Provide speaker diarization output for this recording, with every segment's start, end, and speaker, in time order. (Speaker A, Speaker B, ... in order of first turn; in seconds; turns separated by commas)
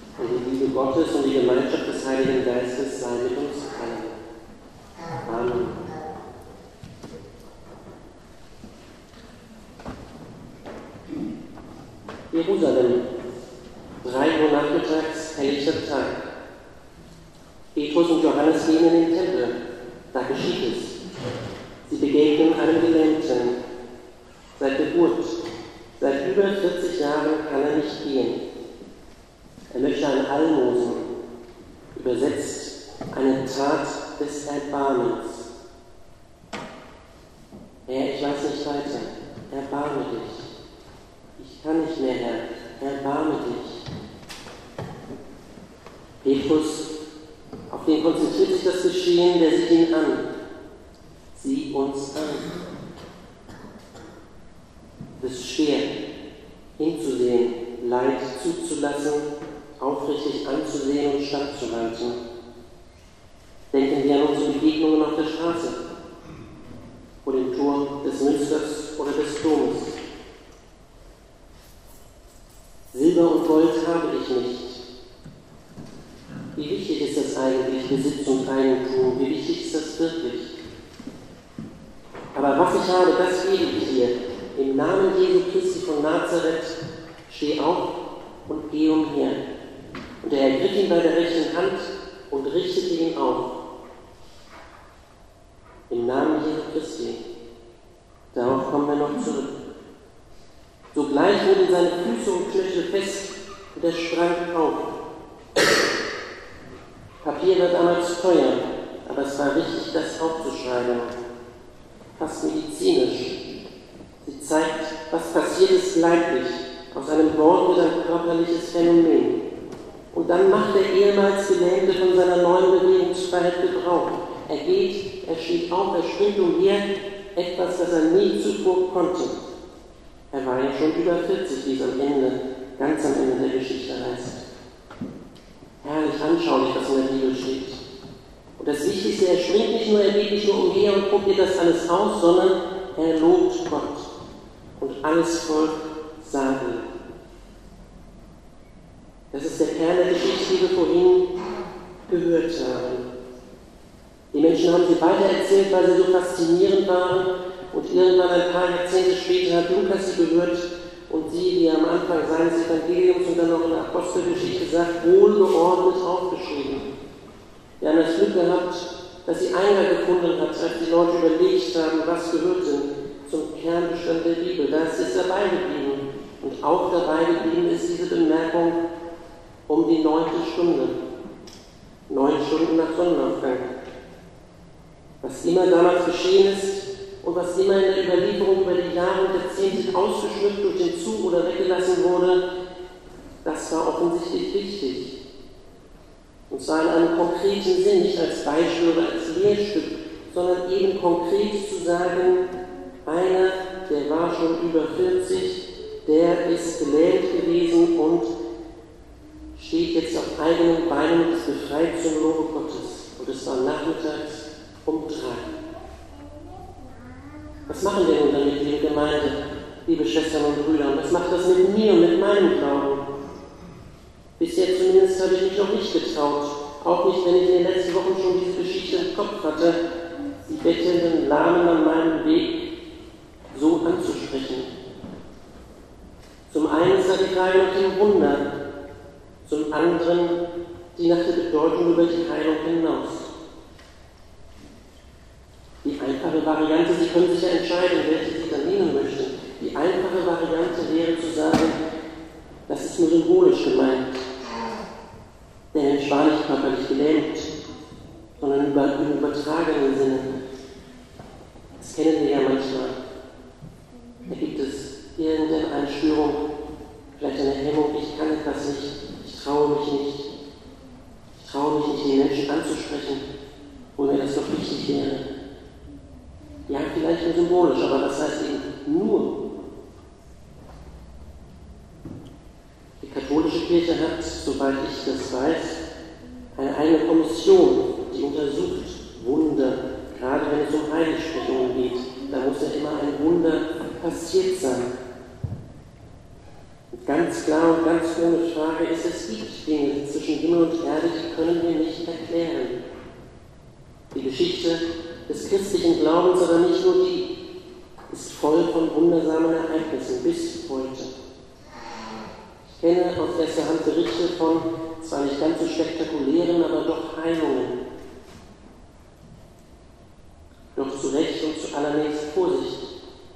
Speaker A: 0.2-4.2, Speaker A: 5.3-5.8, Speaker A: 12.3-13.0, Speaker A: 14.0-16.2, Speaker A: 17.8-19.6, Speaker A: 20.1-21.0, Speaker A: 21.9-23.6, Speaker A: 24.6-25.4, Speaker A: 26.0-28.4, Speaker A: 29.7-31.1, Speaker A: 31.9-35.5, Speaker A: 37.9-40.5, Speaker A: 41.4-43.8, Speaker A: 46.2-46.9, Speaker A: 47.7-50.2, Speaker A: 51.3-52.5, Speaker A: 55.2-55.9, Speaker A: 56.8-59.3, Speaker A: 59.8-62.2, Speaker A: 63.7-65.8, Speaker A: 67.2-70.0, Speaker A: 72.9-74.8, Speaker A: 76.5-80.5, Speaker A: 82.3-86.8, Speaker A: 87.3-87.9, Speaker A: 88.5-89.4, Speaker A: 90.2-93.5, Speaker A: 95.9-97.2, Speaker A: 98.3-99.5, Speaker A: 100.9-104.9, Speaker A: 107.2-111.1, Speaker A: 112.2-113.3, Speaker A: 114.2-119.3, Speaker A: 120.1-126.8, Speaker A: 127.3-129.5, Speaker A: 130.3-134.4, Speaker A: 135.8-137.8, Speaker A: 138.6-144.1, Speaker A: 144.8-146.9, Speaker A: 149.3-151.3, Speaker A: 152.1-153.0, Speaker A: 154.3-166.9, Speaker A: 167.8-178.8, Speaker A: 179.7-181.0, Speaker A: 182.1-183.7, Speaker A: 185.2-192.4, Speaker A: 193.4-195.2, Speaker A: 196.5-202.4, Speaker A: 203.1-208.3, Speaker A: 209.6-215.5, Speaker A: 217.7-223.0, Speaker A: 224.4-229.8, Speaker A: 230.4-232.5, Speaker A: 233.5-234.7, Speaker A: 236.5-238.5, Speaker A: 239.4-240.4, Speaker A: 240.9-243.3, Speaker A: 245.8-251.8, Speaker A: 252.7-254.2, Speaker A: 255.7-257.5, Speaker A: 258.4-260.3, Speaker A: 261.8-263.0, Speaker A: 264.3-266.4, Speaker A: 267.2-270.3, Speaker A: 271.4-273.2, Speaker A: 274.0-275.2, Speaker A: 276.7-279.3, Speaker A: 283.0-285.8, Speaker A: 286.6-294.9, Speaker A: 296.9-302.8, Speaker A: 304.1-307.3, Speaker A: 308.1-311.1, Speaker A: 312.8-317.8, Speaker A: 320.8-322.9